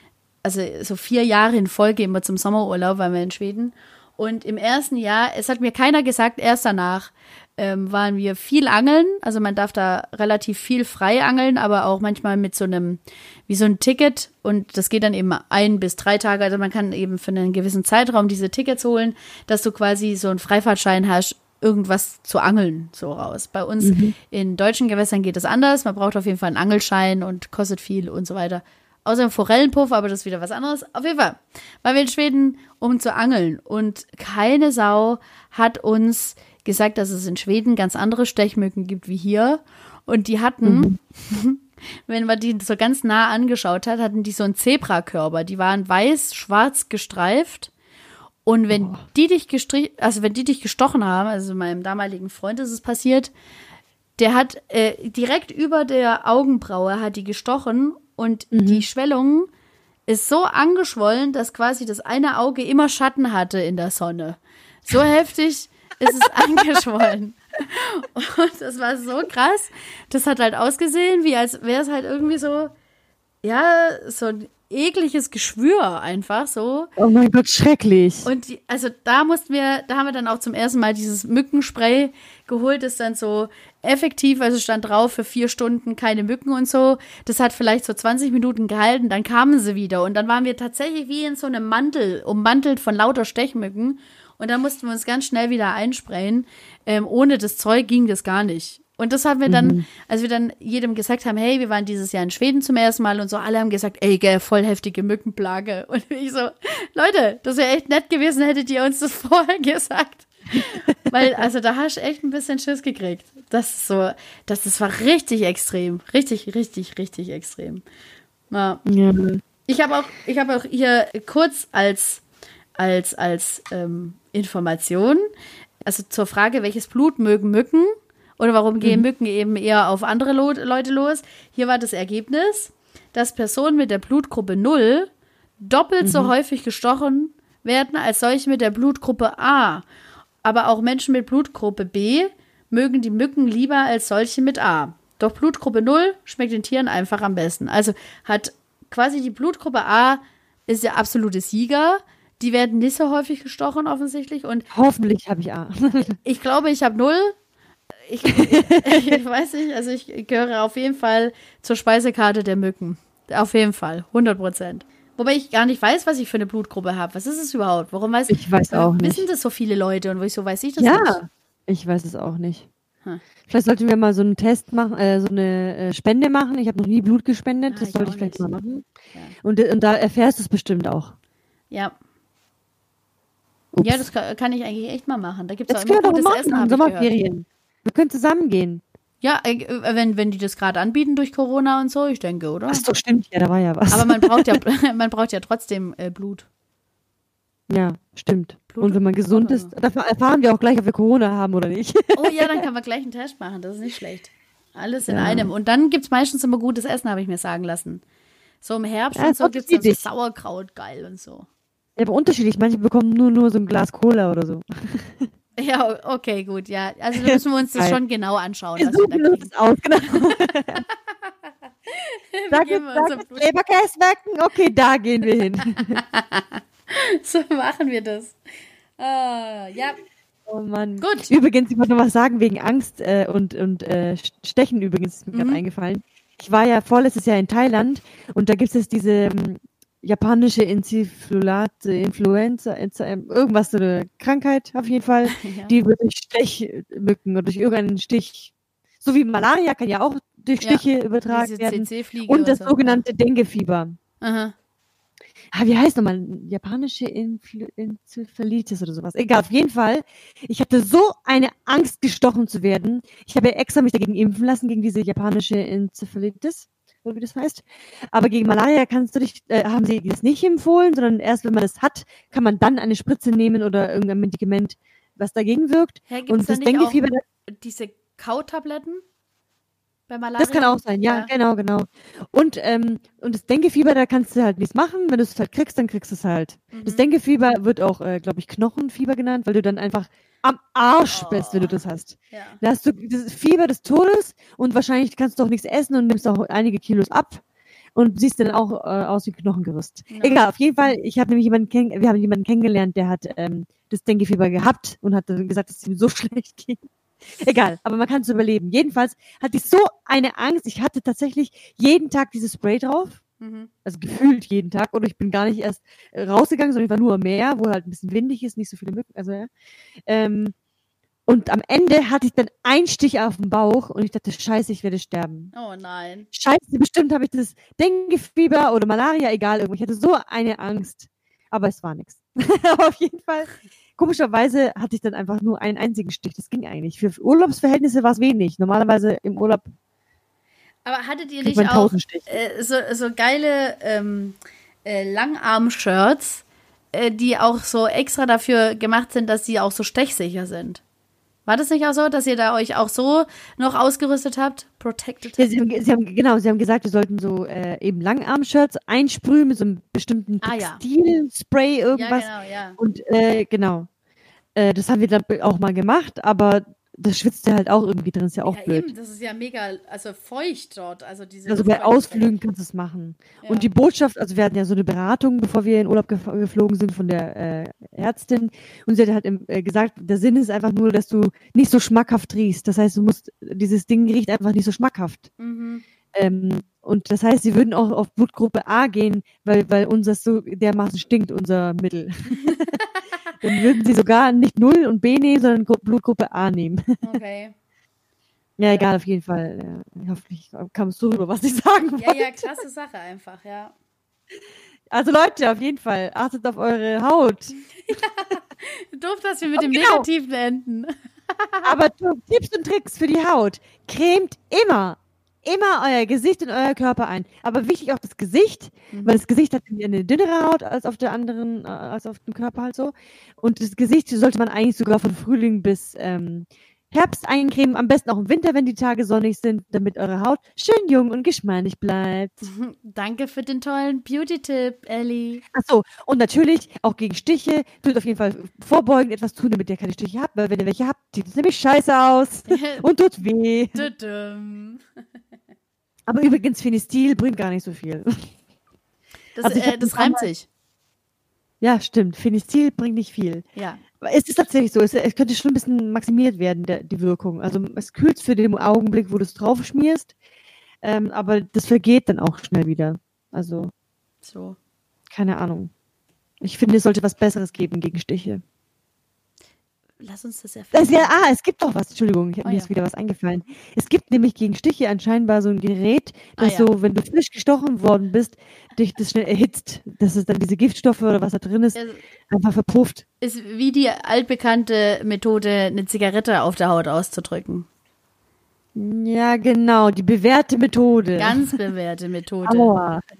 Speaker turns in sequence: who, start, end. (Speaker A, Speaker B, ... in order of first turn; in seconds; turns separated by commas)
Speaker A: 0.4-47.7, Speaker B: 23.8-24.1, Speaker B: 40.6-40.9, Speaker A: 48.4-53.3, Speaker B: 48.7-49.0, Speaker A: 54.2-59.5, Speaker B: 58.5-58.8, Speaker A: 60.1-72.7, Speaker A: 73.4-76.9, Speaker B: 77.0-78.3, Speaker A: 78.2-117.8, Speaker B: 99.5-99.8, Speaker A: 118.5-118.8, Speaker B: 118.8-119.4, Speaker A: 119.7-122.2, Speaker A: 122.8-125.2, Speaker A: 125.8-135.1, Speaker A: 135.6-139.8, Speaker B: 136.0-136.3, Speaker A: 140.4-154.7, Speaker B: 154.7-156.2, Speaker A: 156.2-157.3, Speaker A: 158.1-171.2, Speaker B: 158.4-159.2, Speaker B: 168.3-169.2, Speaker B: 170.8-172.7, Speaker B: 173.5-178.8, Speaker A: 177.7-178.5, Speaker B: 179.4-181.1, Speaker B: 183.7-184.1, Speaker A: 183.8-187.1, Speaker B: 185.7-188.8, Speaker A: 189.2-192.9, Speaker B: 192.7-194.6, Speaker A: 193.9-196.5, Speaker B: 197.7-202.5, Speaker A: 198.7-199.7, Speaker A: 202.1-208.0, Speaker B: 205.1-205.5, Speaker A: 208.6-211.5, Speaker B: 209.2-210.1, Speaker B: 212.0-215.3, Speaker A: 215.6-219.5, Speaker B: 217.1-218.0, Speaker B: 218.8-220.8, Speaker A: 220.3-220.9, Speaker A: 221.9-223.5, Speaker B: 222.5-226.0, Speaker A: 225.8-228.3, Speaker A: 229.0-230.0, Speaker B: 230.5-253.9, Speaker A: 231.0-231.3, Speaker A: 235.3-235.6, Speaker A: 245.3-245.7, Speaker A: 250.6-253.0, Speaker A: 254.2-254.5, Speaker B: 255.5-277.2, Speaker A: 276.1-277.0, Speaker A: 277.6-279.0, Speaker A: 280.1-281.3, Speaker B: 280.4-297.4, Speaker A: 286.7-287.0, Speaker A: 291.1-292.6, Speaker B: 297.9-306.8, Speaker A: 300.1-300.4, Speaker B: 307.4-313.2, Speaker A: 313.4-313.7, Speaker B: 313.8-319.5, Speaker B: 320.1-320.5, Speaker B: 321.3-325.5, Speaker A: 325.5-326.3, Speaker B: 326.3-339.6, Speaker A: 340.8-350.8, Speaker B: 341.4-342.3, Speaker A: 351.4-355.5, Speaker B: 355.4-363.9, Speaker A: 360.4-360.8, Speaker A: 361.9-362.8, Speaker B: 364.6-368.9, Speaker A: 368.4-372.3, Speaker B: 371.5-385.3, Speaker A: 373.4-373.7, Speaker A: 385.4-385.8, Speaker B: 386.1-392.7, Speaker A: 392.4-393.3, Speaker B: 393.4-396.8, Speaker A: 397.0-397.5, Speaker B: 398.6-402.4, Speaker A: 402.0-403.7, Speaker B: 404.9-407.6, Speaker A: 407.9-411.7, Speaker B: 409.6-410.1, Speaker B: 411.6-432.4, Speaker A: 418.9-419.2, Speaker A: 432.4-435.4, Speaker B: 435.5-443.8, Speaker A: 442.4-442.8, Speaker A: 443.7-444.8, Speaker B: 446.1-448.3, Speaker A: 449.4-450.4, Speaker B: 449.4-450.3, Speaker B: 451.6-453.4, Speaker A: 453.6-453.8, Speaker B: 454.0-460.1, Speaker B: 460.8-463.7, Speaker A: 464.2-464.6, Speaker B: 465.1-465.7, Speaker B: 466.4-468.4, Speaker A: 470.0-471.3, Speaker B: 470.7-481.8, Speaker A: 472.4-472.7, Speaker A: 476.4-476.7, Speaker A: 481.7-482.0, Speaker B: 482.3-483.0, Speaker A: 483.2-487.7, Speaker B: 488.7-491.4, Speaker A: 491.2-492.7, Speaker B: 492.4-493.0